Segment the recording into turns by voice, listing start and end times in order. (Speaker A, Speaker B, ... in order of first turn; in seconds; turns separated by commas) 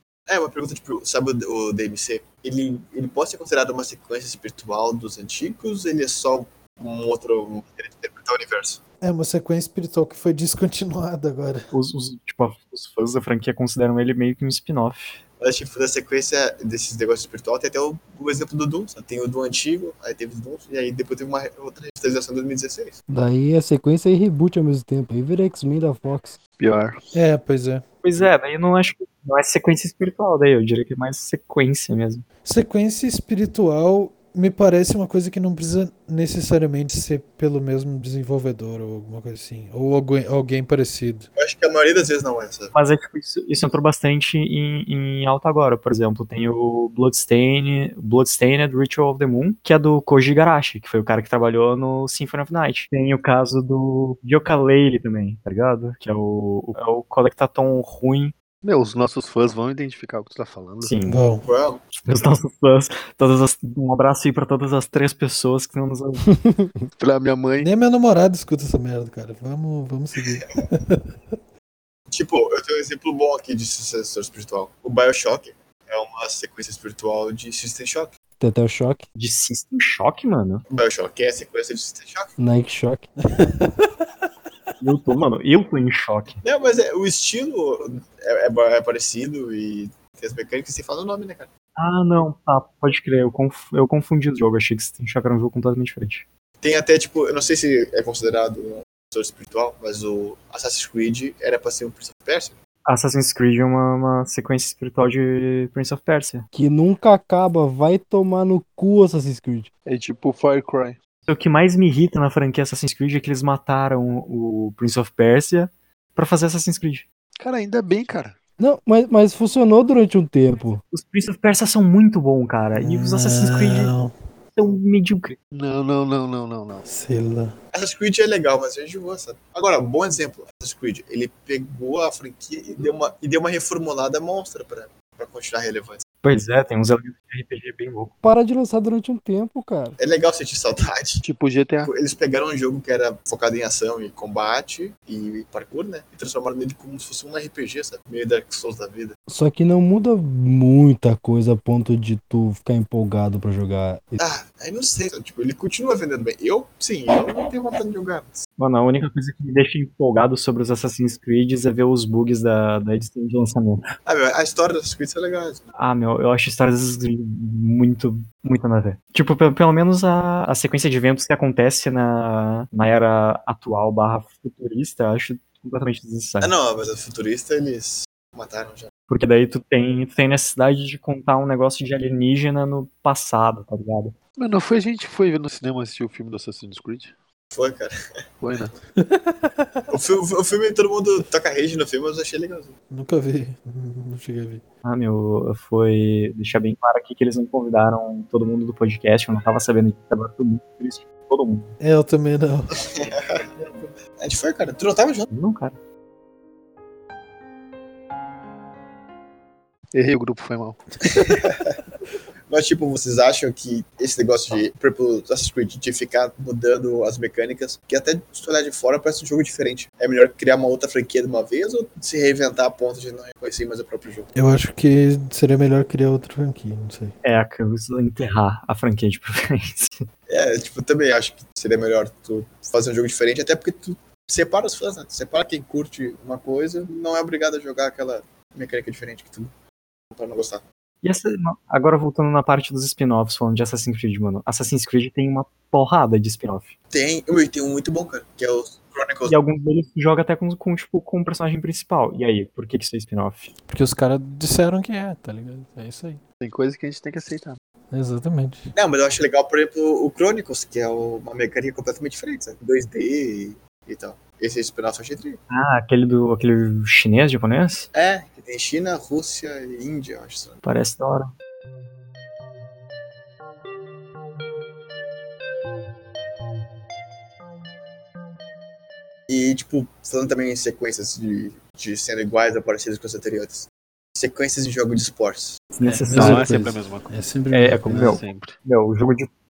Speaker A: 0.3-8.8, Speaker B: 9.0-11.7, Speaker C: 11.7-15.2, Speaker A: 15.4-23.0, Speaker D: 23.1-26.4, Speaker E: 26.6-27.0, Speaker B: 27.1-27.8, Speaker C: 28.0-32.2, Speaker B: 32.4-41.3, Speaker A: 41.4-42.7, Speaker C: 42.7-58.3, Speaker E: 58.6-61.0, Speaker C: 60.8-61.2, Speaker B: 61.0-61.5, Speaker A: 61.4-61.8, Speaker C: 61.9-66.2, Speaker D: 66.3-66.8, Speaker E: 67.0-67.7, Speaker B: 67.6-71.1, Speaker A: 72.1-78.1, Speaker D: 78.4-79.0, Speaker C: 79.2-80.6, Speaker A: 80.7-82.3, Speaker D: 82.4-83.1, Speaker B: 83.2-84.2, Speaker C: 84.8-86.4, Speaker A: 86.4-91.5, Speaker C: 91.8-96.2, Speaker A: 96.6-102.5, Speaker C: 102.8-106.5, Speaker D: 106.5-109.7, Speaker E: 109.8-111.0, Speaker C: 111.3-117.0, Speaker E: 117.4-118.4, Speaker D: 118.6-120.8, Speaker C: 120.9-123.9, Speaker B: 122.7-124.1, Speaker C: 124.5-125.4, Speaker E: 125.5-126.8, Speaker B: 126.8-127.5, Speaker A: 127.7-136.0, Speaker C: 136.2-138.1, Speaker D: 138.2-140.0, Speaker A: 140.0-141.2, Speaker E: 141.2-141.9, Speaker A: 141.8-149.2, Speaker D: 149.3-154.2, Speaker A: 154.2-158.4, Speaker C: 158.6-163.8, Speaker A: 164.1-165.7, Speaker C: 165.7-176.5, Speaker A: 176.4-178.9, Speaker C: 179.1-184.1, Speaker E: 184.3-187.1, Speaker A: 187.5-187.9, Speaker E: 188.4-188.7, Speaker B: 189.0-189.8, Speaker A: 189.9-192.7, Speaker B: 192.9-194.6, Speaker C: 194.8-201.7, Speaker B: 201.8-202.8, Speaker A: 202.7-205.3, Speaker C: 205.3-205.8, Speaker E: 209.9-210.8, Speaker A: 211.1-211.8, Speaker A: 212.5-224.3, Speaker B: 224.3-227.1, Speaker C: 227.2-230.1, Speaker A: 230.3-239.5, Speaker A: 240.1-240.6, Speaker C: 241.0-246.7, Speaker A: 246.9-249.4, Speaker C: 249.2-253.5, Speaker B: 253.7-256.2, Speaker E: 256.4-257.6, Speaker B: 257.9-258.7, Speaker A: 258.7-265.4, Speaker C: 265.5-267.9, Speaker A: 267.9-270.6, Speaker C: 270.6-271.3, Speaker A: 279.3-285.6, Speaker C: 285.7-286.6, Speaker B: 285.8-288.0, Speaker E: 286.1-287.1, Speaker C: 287.5-289.3, Speaker E: 287.8-288.6